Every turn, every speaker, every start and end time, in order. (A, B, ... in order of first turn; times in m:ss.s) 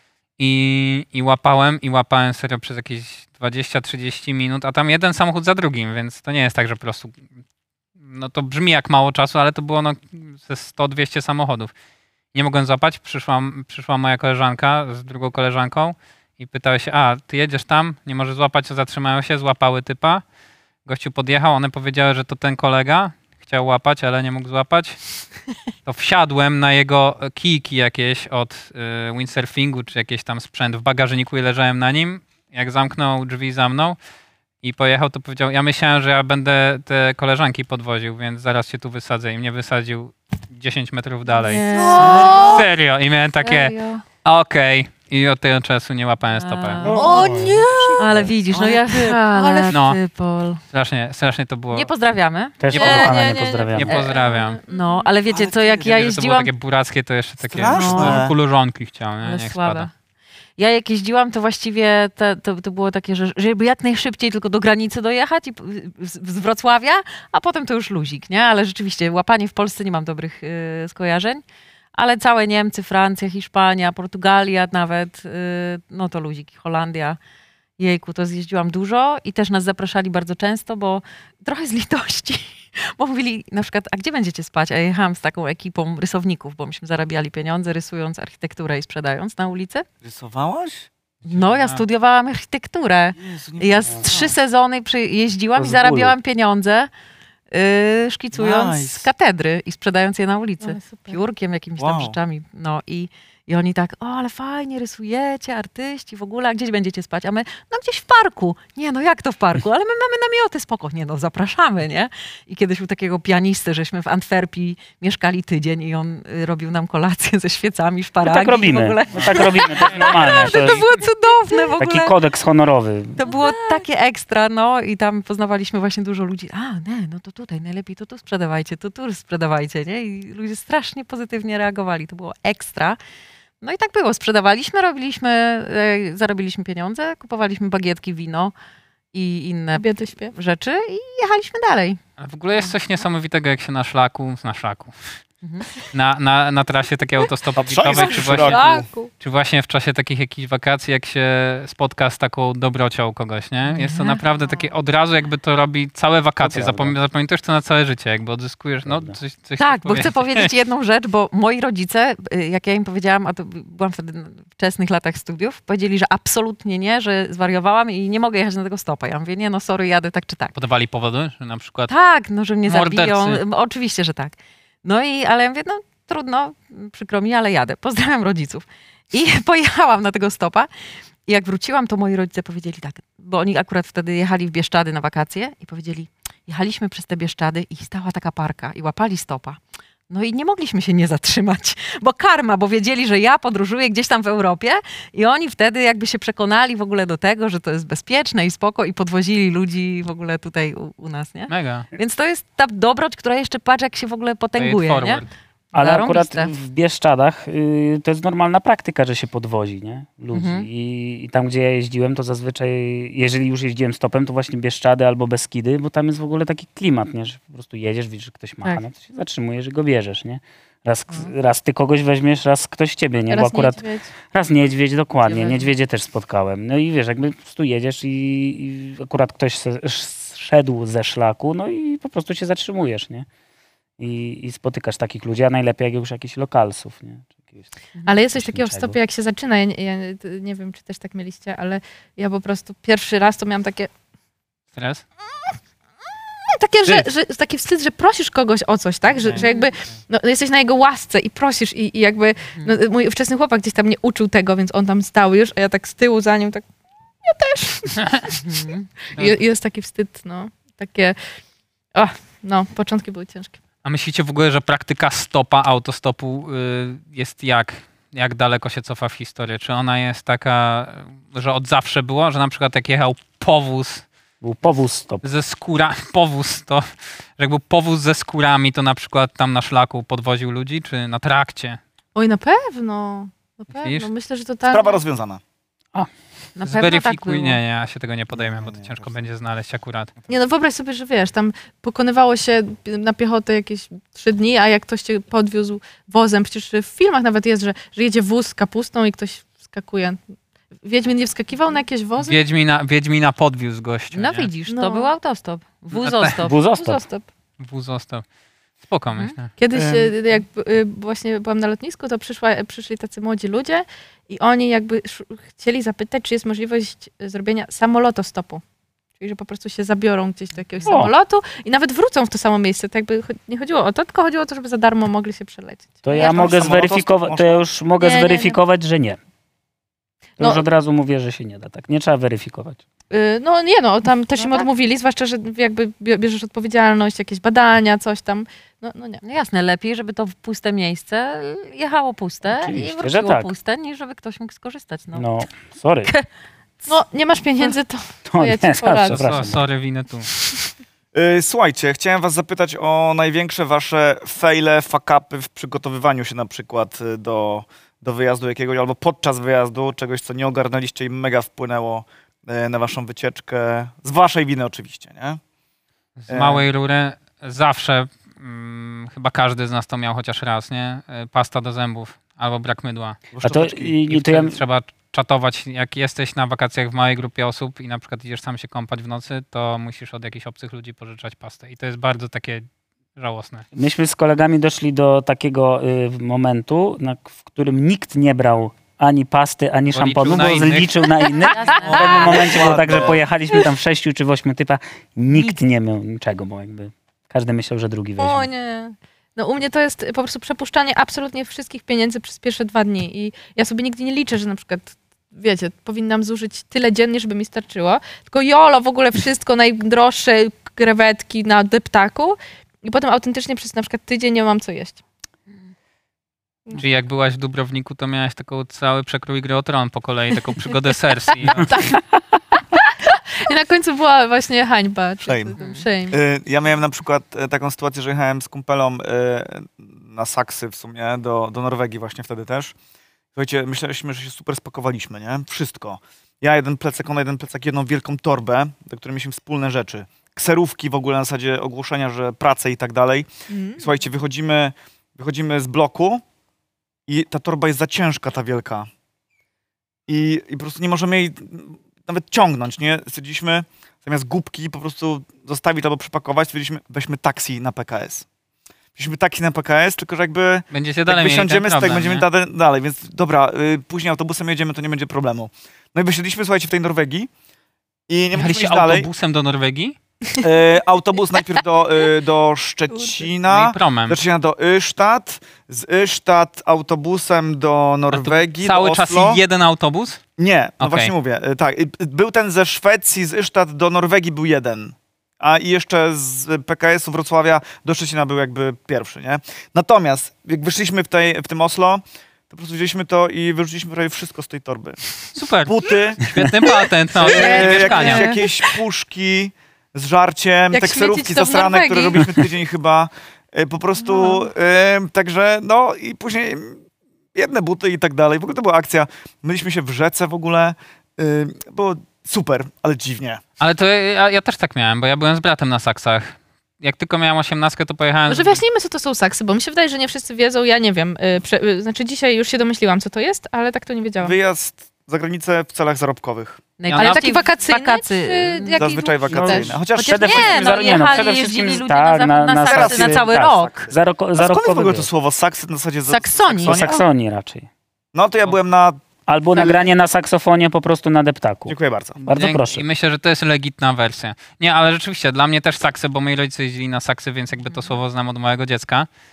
0:00.4-0:07.2 A
0:08.0-0:11.7 A
0:12.3-0:20.2 A
0:20.8-0:25.0 A
0:25.8-0:34.0 A
0:34.6-0:46.9 A
0:41.3-0:42.7 B
0:41.8-0:42.5 C
0:41.8-0:42.5 D
0:43.4-0:44.0 B
0:46.3-0:50.6 B
0:46.8-0:47.6 E
0:46.8-0:49.6 C
0:47.0-0:47.5 D
0:49.3-0:49.7 D
0:49.7-0:50.0 A
0:50.7-0:51.9 A
0:51.7-0:53.0 B
0:52.6-0:54.0 E
0:52.7-0:53.2 A
0:52.7-0:55.1 D
0:53.7-0:54.6 A
0:53.9-0:56.5 B
0:55.2-0:55.9 C
0:55.8-0:59.9 A
0:57.4-0:58.3 C
0:57.6-0:58.3 B
0:59.2-0:59.9 B
1:00.6-1:11.4 B
1:11.9-1:17.2 B
1:17.8-1:29.8 B
1:30.0-1:30.9 C
1:31.2-1:31.8 A
1:31.3-1:36.9 B
1:33.2-1:34.4 C
1:35.6-1:36.1 E
1:37.5-2:02.1 B
1:38.3-1:39.1 C
1:40.6-1:41.2 D
1:41.8-1:42.2 C
1:58.2-2:00.8 E
1:59.1-2:00.8 A
2:01.8-2:03.3 E
2:03.2-2:13.0 B
2:13.6-2:18.5 B
2:19.1-2:22.0 B
2:19.7-2:20.3 D
2:22.2-2:24.9 A
2:25.4-2:25.7 B
2:25.9-2:40.5 A
2:27.6-2:28.9 C
2:27.9-2:29.1 D
2:33.7-2:34.7 B
2:36.4-2:36.9 E
2:38.8-2:39.2 E
2:39.6-2:50.5 B
2:50.5-2:51.9 A
2:51.9-3:00.7 B
2:52.6-2:53.4 A
3:01.2-3:25.2 B
3:21.5-3:21.9 A
3:24.6-3:25.3 A
3:25.7-3:53.3 E
3:25.7-3:26.5 B
3:30.3-3:30.7 B
3:43.3-3:44.1 D
3:45.2-3:45.7 B
3:54.0-3:57.7 E
3:58.0-4:03.9 D
3:58.3-3:59.0 E
4:04.8-4:05.0 A
4:06.5-4:16.6 D
4:17.2-4:18.4 D
4:18.4-4:18.9 B
4:19.1-4:21.2 D
4:21.9-4:23.6 D
4:23.8-4:34.0 A
4:34.4-4:35.2 E
4:35.2-4:41.8 A
4:42.1-4:45.0 D
4:43.8-4:44.1 A
4:44.7-4:45.4 C
4:46.6-4:47.6 B
4:46.6-4:50.1 A
4:48.3-4:49.2 C
4:50.3-5:00.2 D
5:00.8-5:02.4 D
5:02.2-5:04.5 A
5:04.1-5:06.6 B
5:04.7-5:05.1 D
5:05.9-5:06.4 A
5:06.4-5:07.0 E
5:06.7-5:07.3 D
5:07.6-5:08.2 A
5:08.8-5:09.5 A
5:09.6-5:18.6 D
5:09.7-5:10.1 C
5:19.2-5:26.6 D
5:20.8-5:21.1 E
5:26.0-5:29.2 E
5:26.1-5:27.6 C
5:28.0-5:28.6 D
5:30.4-5:32.8 E
5:33.1-5:39.2 D
5:34.4-5:34.6 B
5:39.2-5:45.2 B
5:42.4-5:43.5 E
5:45.1-5:46.1 E
5:46.9-5:49.3 D
5:48.2-5:49.6 E
5:49.0-5:50.3 A
5:51.1-6:05.4 C
6:06.2-6:13.2 A
6:06.3-6:06.6 C
6:13.3-6:14.0 C
6:13.4-6:14.6 E
6:14.1-6:23.6 A
6:23.7-6:38.5 E
6:29.9-6:31.0 A
6:31.4-6:32.8 B
6:31.8-6:33.2 C
6:38.2-6:55.0 D
6:56.7-7:01.7 A
7:01.4-7:02.0 D
7:02.7-7:06.2 D
7:05.2-7:05.5 C
7:05.6-7:05.8 B
7:06.1-7:12.7 C
7:13.3-7:26.2 C
7:23.5-7:23.8 D
7:27.1-7:28.9 C
7:30.1-7:38.2 C
7:39.0-7:47.3 C
7:40.7-7:42.2 A
7:48.1-7:49.1 C
7:48.3-7:49.9 A
7:50.4-7:59.4 C
7:52.9-7:53.2 D
7:53.4-7:54.2 A
7:58.1-8:00.2 A
8:00.4-8:15.0 C
8:00.8-8:01.1 A
8:15.4-8:18.4 A
8:15.6-8:16.3 C
8:17.2-8:26.8 C
8:17.2-8:18.4 D
8:20.7-8:22.4 D
8:24.0-8:24.5 D
8:27.3-8:33.4 C
8:33.6-8:38.6 A
8:38.3-8:44.4 D
8:44.2-8:46.6 C
8:46.8-8:48.8 B
8:46.8-8:47.2 A
8:46.9-8:49.8 D
8:48.8-8:51.2 C
8:49.3-8:55.1 E
8:50.0-8:53.9 B
8:52.6-8:57.0 C
8:56.1-8:56.8 B
8:56.6-8:57.7 E
8:58.1-8:59.0 C
8:59.3-9:02.8 E
8:59.6-8:59.8 C
9:01.7-9:02.2 C
9:02.2-9:09.1 A